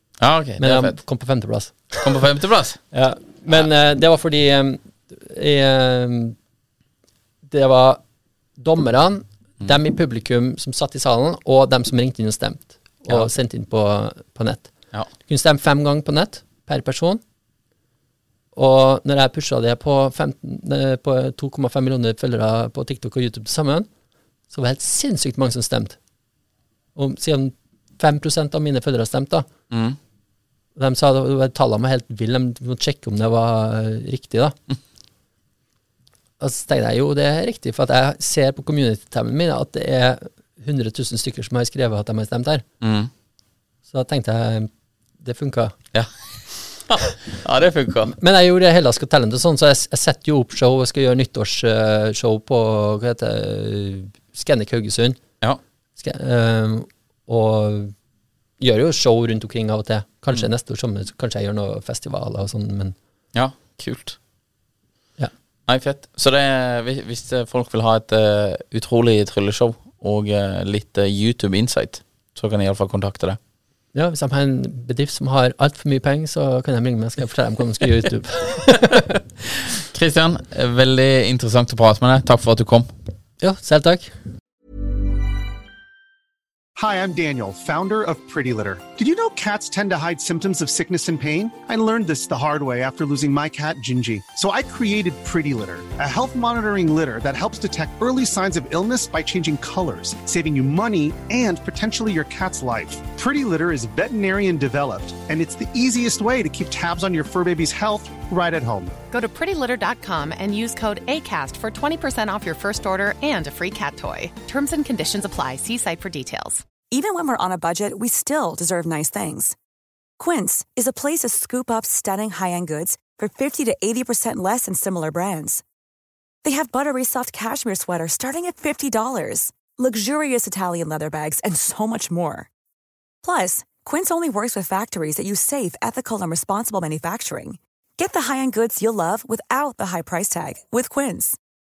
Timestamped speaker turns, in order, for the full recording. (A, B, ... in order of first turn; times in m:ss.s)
0:00.2-0:01.0 A
0:00.6-0:02.2 B
0:02.0-0:02.8 A
0:02.9-0:06.4 B
0:07.5-0:08.0 B
0:08.6-0:14.7 B
0:15.3-0:17.2 B
0:18.6-0:23.9 B
0:24.5-0:26.0 B
0:27.0-0:29.5 B
0:29.7-0:30.0 A
0:30.8-0:34.6 B
0:36.4-0:42.6 B
0:42.8-0:43.1 A
0:43.9-0:44.7 B
0:45.2-0:45.7 B
0:46.9-0:48.2 A
0:48.2-0:55.2 B
0:56.0-0:57.9 B
0:58.6-1:03.0 B
1:03.3-1:04.2 A
1:05.7-1:13.4 A
1:14.0-1:19.1 B
1:18.8-1:22.9 A
1:23.4-1:24.1 B
1:26.8-1:49.0 C
1:49.1-1:56.6 D
1:56.9-1:59.6 E
2:00.2-2:05.6 E
2:06.4-2:12.5 E
2:13.2-2:21.4 E